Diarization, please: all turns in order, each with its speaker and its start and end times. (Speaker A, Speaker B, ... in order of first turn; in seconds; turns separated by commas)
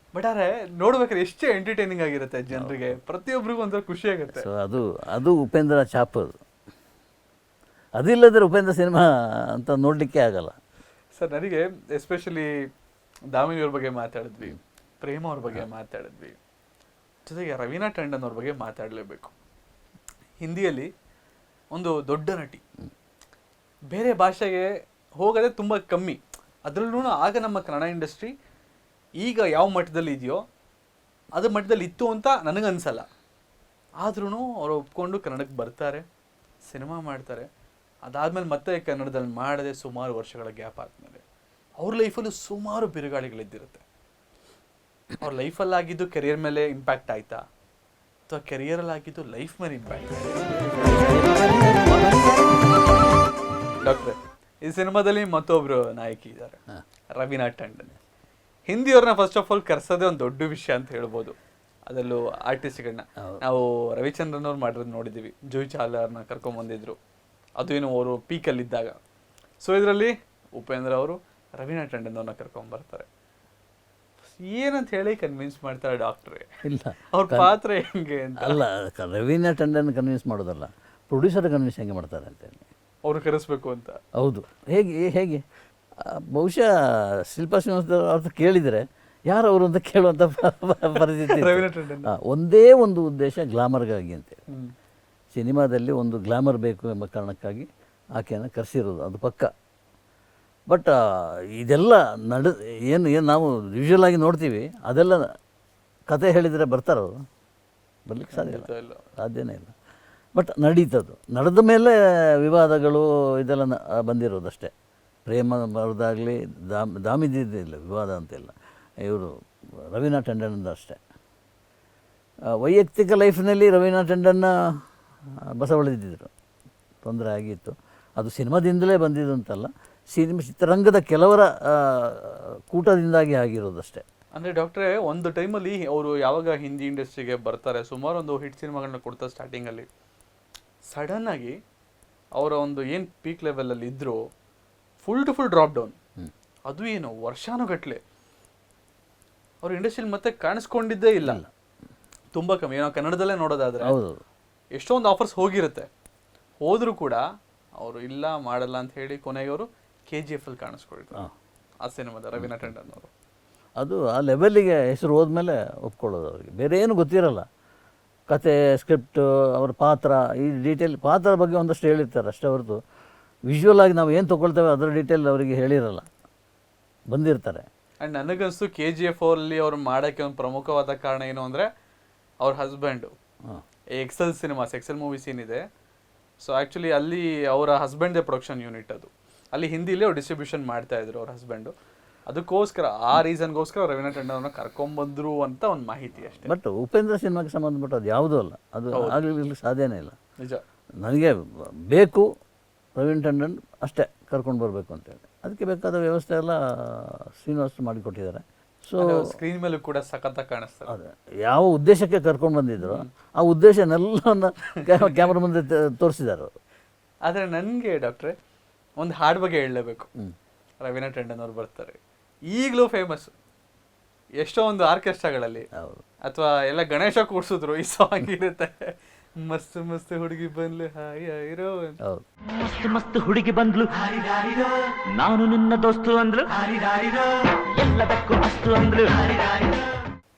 Speaker A: 0.1-4.5, Speaker B: 2.5-3.0, Speaker B: 4.3-6.4, Speaker B: 8.0-10.6, Speaker A: 11.2-12.5, Speaker A: 13.3-16.4, Speaker A: 17.2-19.3, Speaker A: 20.4-20.9, Speaker A: 21.7-22.6, Speaker A: 23.9-28.3, Speaker A: 29.2-30.4, Speaker A: 31.3-33.1, Speaker A: 34.0-36.0, Speaker A: 36.7-37.5, Speaker A: 38.0-41.2, Speaker A: 41.8-43.8, Speaker A: 45.2-47.4, Speaker A: 48.3-51.0, Speaker A: 53.8-56.6, Speaker A: 57.2-58.0, Speaker A: 58.7-61.4, Speaker A: 61.9-67.0, Speaker A: 67.6-69.0, Speaker A: 69.6-73.1, Speaker A: 74.3-76.5, Speaker B: 76.6-77.5, Speaker A: 77.1-78.6, Speaker B: 78.4-82.7, Speaker A: 83.1-84.0, Speaker B: 84.2-85.4, Speaker B: 86.0-94.4, Speaker A: 91.1-92.1, Speaker B: 95.3-99.5, Speaker B: 100.7-105.3, Speaker B: 106.1-107.2, Speaker B: 108.1-109.7, Speaker A: 108.3-109.0, Speaker B: 110.3-114.7, Speaker B: 115.2-121.0, Speaker B: 122.5-124.8, Speaker B: 125.5-126.3, Speaker B: 127.0-134.0, Speaker A: 134.3-139.9, Speaker A: 140.9-141.6, Speaker A: 142.4-144.3, Speaker A: 145.0-145.9, Speaker A: 146.7-148.0, Speaker A: 149.6-151.4, Speaker A: 152.3-154.0, Speaker B: 153.8-154.2, Speaker A: 154.8-155.9, Speaker A: 156.6-157.2, Speaker A: 157.8-161.2, Speaker A: 161.8-163.1, Speaker B: 162.4-162.7, Speaker B: 163.8-167.5, Speaker B: 168.3-172.8, Speaker B: 173.5-176.1, Speaker B: 177.1-177.7, Speaker A: 178.0-181.7, Speaker A: 182.4-183.1, Speaker A: 183.9-185.6, Speaker A: 186.4-191.7, Speaker A: 192.3-196.5, Speaker B: 196.4-200.2, Speaker A: 198.9-199.2, Speaker B: 201.0-202.3, Speaker B: 203.0-209.4, Speaker A: 209.0-210.9, Speaker B: 210.9-216.5, Speaker A: 212.8-213.1, Speaker A: 214.8-215.2, Speaker A: 217.3-218.3, Speaker A: 219.0-220.1, Speaker A: 220.8-222.0, Speaker A: 222.5-223.3, Speaker A: 224.4-225.6, Speaker B: 225.7-226.1, Speaker A: 226.2-232.0, Speaker C: 232.6-233.9, Speaker C: 235.1-236.5, Speaker C: 237.7-239.5